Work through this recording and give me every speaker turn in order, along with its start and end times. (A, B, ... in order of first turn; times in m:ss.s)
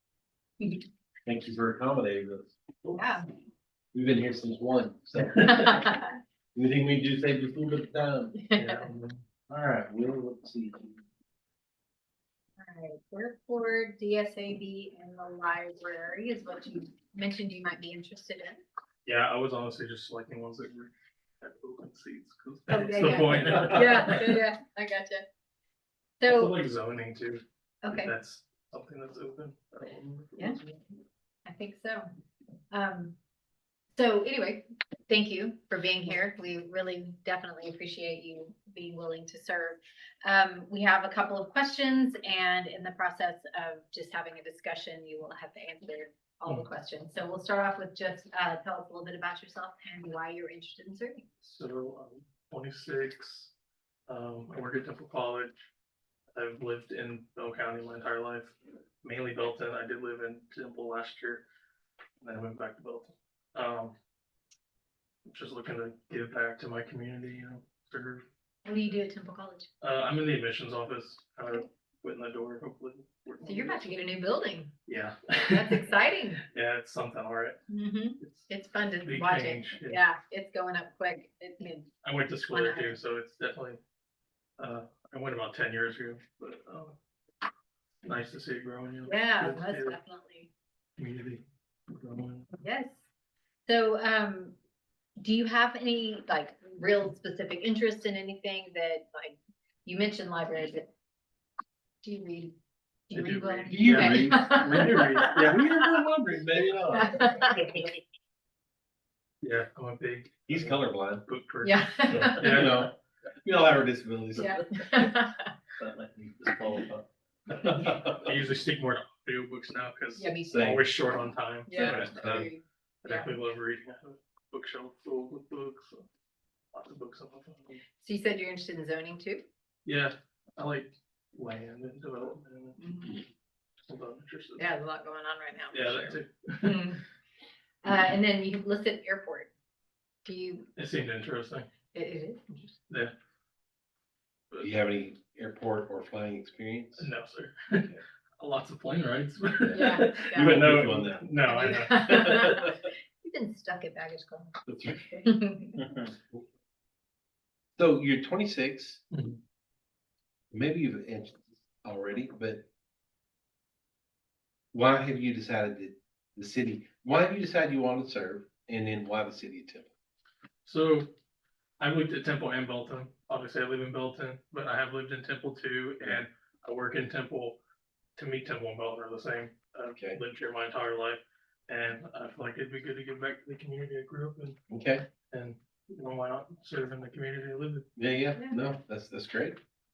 0:00.6-0:00.8 A
0:01.3-0:02.6 B
0:02.9-0:03.2 A
0:03.9-0:06.0 B
0:05.4-0:06.1 A
0:06.6-0:08.4 B
0:08.4-0:08.9 A
0:08.6-0:09.2 C
0:09.5-0:11.0 B
0:12.6-0:18.6 A
0:19.0-0:24.4 C
0:22.7-0:25.2 A
0:23.6-0:23.9 B
0:26.2-0:26.6 A
0:26.2-0:30.8 C
0:27.8-0:28.1 A
0:31.4-0:32.1 A
0:32.7-0:33.2 A
0:34.0-0:51.2 A
0:51.4-0:53.5 C
0:54.1-0:55.5 C
0:56.4-1:01.4 C
1:02.2-1:03.9 C
1:05.3-1:08.2 C
1:08.6-1:09.7 A
1:09.8-1:13.8 C
1:13.4-1:14.7 A
1:14.9-1:15.9 C
1:15.5-1:16.4 A
1:16.4-1:17.6 C
1:17.7-1:21.9 A
1:18.2-1:18.5 C
1:19.0-1:20.0 C
1:22.0-1:23.8 C
1:22.5-1:23.0 A
1:24.6-1:27.0 C
1:28.0-1:30.0 C
1:29.0-1:30.5 A
1:31.0-1:32.5 C
1:32.6-1:33.0 A
1:33.7-1:34.6 A
1:35.2-1:40.9 A
1:42.0-1:42.5 A
1:43.1-1:45.9 A
1:43.1-1:45.6 C
1:43.7-1:47.8 B
1:46.9-1:47.8 A
1:49.4-1:50.7 C
1:50.5-1:51.3 B
1:51.3-1:52.9 C
1:51.6-1:52.7 A
1:52.1-1:54.8 B
1:54.4-1:55.5 A
1:55.8-1:58.4 B
1:57.5-2:02.5 C
2:00.2-2:01.1 A
2:00.5-2:00.9 B
2:01.7-2:03.4 A
2:01.7-2:02.5 B
2:03.0-2:06.0 C
2:06.7-2:07.8 C
2:08.0-2:09.4 A
2:09.9-2:12.8 C
2:12.8-2:13.2 A
2:13.9-2:14.6 C
2:14.6-2:17.0 A
2:15.7-2:16.9 C
2:17.8-2:19.5 A
2:20.2-2:20.7 A
2:20.8-2:21.7 C
2:21.9-2:22.7 A
2:24.6-2:27.1 B
2:27.0-2:32.5 C
2:27.8-2:28.0 B
2:29.6-2:32.7 B
2:29.7-2:30.6 A
2:31.4-2:34.5 A
2:34.7-2:35.2 B
2:35.2-2:35.8 A
2:35.8-2:36.1 C
2:37.8-2:39.0 B
2:39.1-2:39.4 C
2:40.5-2:42.7 B
2:44.7-2:49.9 B
2:50.6-2:51.1 C
2:51.8-2:57.6 C
2:58.2-3:04.6 C
3:04.7-3:05.1 B
3:05.3-3:07.9 C
3:08.0-3:09.6 B